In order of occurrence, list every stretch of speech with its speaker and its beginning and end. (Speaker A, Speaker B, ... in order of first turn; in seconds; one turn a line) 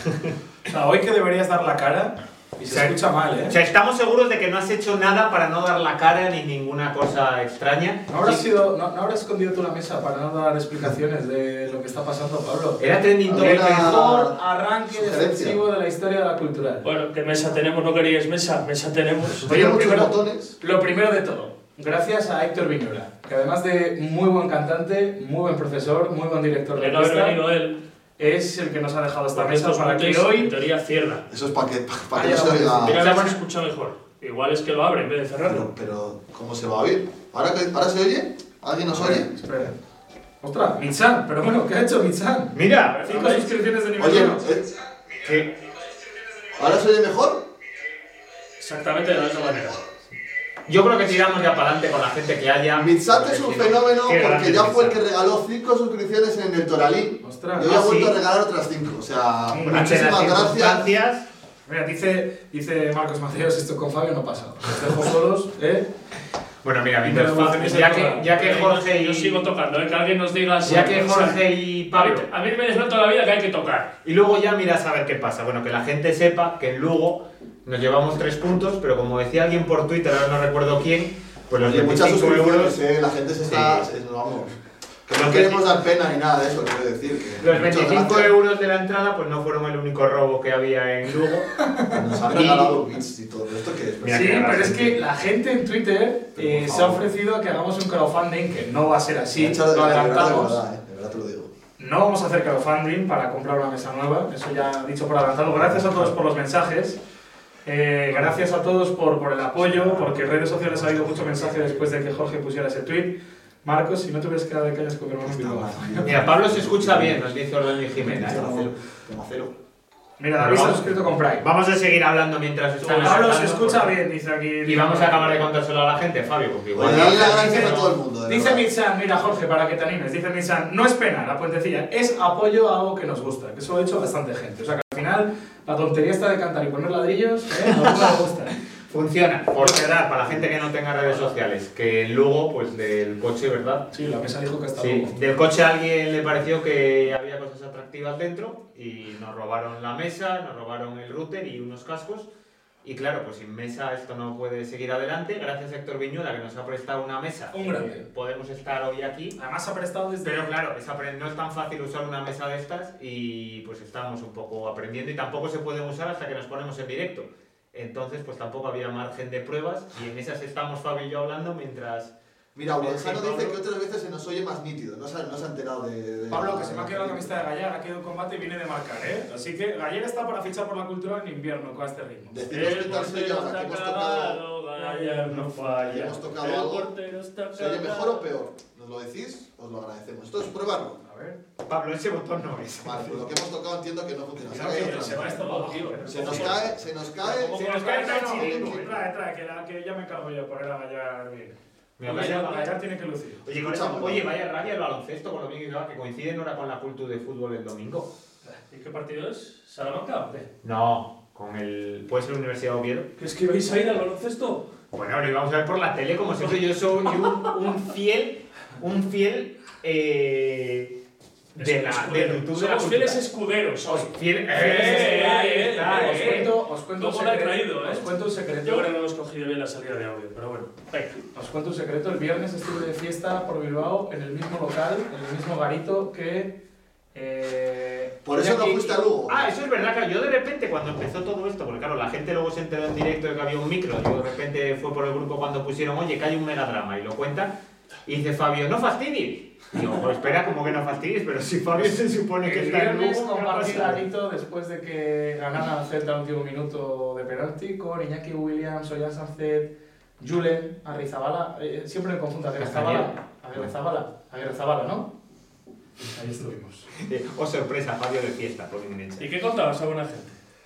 Speaker A: 0.7-3.5
Speaker B: 2.7-8.4
Speaker A: 8.1-12.8
Speaker B: 12.8-14.2
Speaker C: 13.3-14.4
Speaker A: 13.4-16.8
Speaker C: 14.9-15.6
Speaker D: 16.8-20.0
Speaker C: 19.4-20.6
Speaker A: 20.6-27.4
Speaker D: 26.7-27.8
Speaker A: 28.2-30.5
Speaker D: 29.3-31.2
Speaker C: 31.3-33.0
Speaker A: 32.1-33.3
Speaker D: 32.8-35.7
Speaker C: 35.4-39.3
Speaker A: 38.9-39.7
Speaker A: 40.4-42.5
Speaker B: 42.5-43.0
Speaker D: 43.0-43.5
Speaker A: 43.0-44.5
Speaker C: 44.0-44.7
Speaker B: 45.2-45.5
Speaker C: 46.5-47.4
Speaker D: 48.6-49.8
Speaker B: 50.7-55.0
Speaker C: 52.7-60.9
Speaker A: 57.2-57.7
Speaker B: 57.6-58.1
Speaker A: 59.5-60.4
Speaker B: 59.6-61.3
Speaker A: 61.6-65.9
Speaker B: 66.6-69.4
Speaker A: 67.0-68.3
Speaker D: 68.3-73.9
Speaker B: 70.6-72.2
Speaker B: 74.0-82.8
Speaker C: 81.5-84.5
Speaker B: 83.5-83.8
Speaker C: 85.1-88.3
Speaker B: 85.1-85.7
Speaker B: 87.4-91.5
Speaker C: 91.9-94.7
Speaker B: 92.3-92.8
Speaker B: 94.0-95.0
Speaker A: 94.1-100.6
Speaker C: 96.3-97.0
Speaker C: 99.3-101.5
Speaker A: 101.8-107.0
Speaker A: 107.7-116.1
Speaker C: 109.7-110.1
Speaker C: 110.8-111.8
Speaker B: 111.0-111.3
Speaker C: 115.2-117.3
Speaker B: 116.0-118.7
Speaker C: 118.0-119.5
Speaker A: 120.2-121.4
Speaker B: 120.4-123.9
Speaker A: 122.8-125.5
Speaker B: 124.6-128.0
Speaker C: 126.7-128.7
Speaker A: 127.0-127.7
Speaker A: 128.3-138.6
Speaker B: 137.7-138.1
Speaker B: 138.9-143.9
Speaker A: 139.6-140.5
Speaker A: 141.0-141.3
Speaker A: 143.9-145.1
Speaker B: 144.8-152.3
Speaker B: 152.8-159.3
Speaker A: 157.5-158.0
Speaker A: 159.3-160.5
Speaker B: 160.2-172.1
Speaker C: 172.5-177.4
Speaker B: 172.7-173.6
Speaker A: 176.3-182.3
Speaker C: 182.3-184.4
Speaker D: 182.5-188.3
Speaker A: 184.8-186.1
Speaker C: 185.6-186.9
Speaker C: 187.5-191.0
Speaker A: 191.0-191.4
Speaker B: 191.7-193.3
Speaker C: 192.8-195.5
Speaker A: 194.5-196.5
Speaker D: 194.5-196.7
Speaker C: 196.1-197.7
Speaker A: 197.2-201.5
Speaker B: 197.3-199.0
Speaker D: 197.7-198.0
Speaker C: 198.3-198.7
Speaker B: 202.0-202.7
Speaker D: 202.1-202.5
Speaker A: 202.1-203.4
Speaker B: 203.4-208.1
Speaker C: 203.5-204.3
Speaker D: 208.7-210.5
Speaker B: 210.6-213.1
Speaker D: 213.2-214.7
Speaker B: 214.9-220.9
Speaker B: 221.5-223.2
Speaker D: 221.6-228.0
Speaker A: 223.9-228.9
Speaker B: 224.1-226.5
Speaker D: 228.6-231.2
Speaker A: 231.3-236.5
Speaker A: 237.1-239.0
Speaker C: 238.2-239.5
Speaker B: 239.3-247.5
Speaker B: 248.1-254.0
Speaker A: 252.4-265.1
Speaker B: 262.6-263.1
Speaker A: 266.1-266.9
Speaker B: 267.0-269.2
Speaker D: 269.2-270.4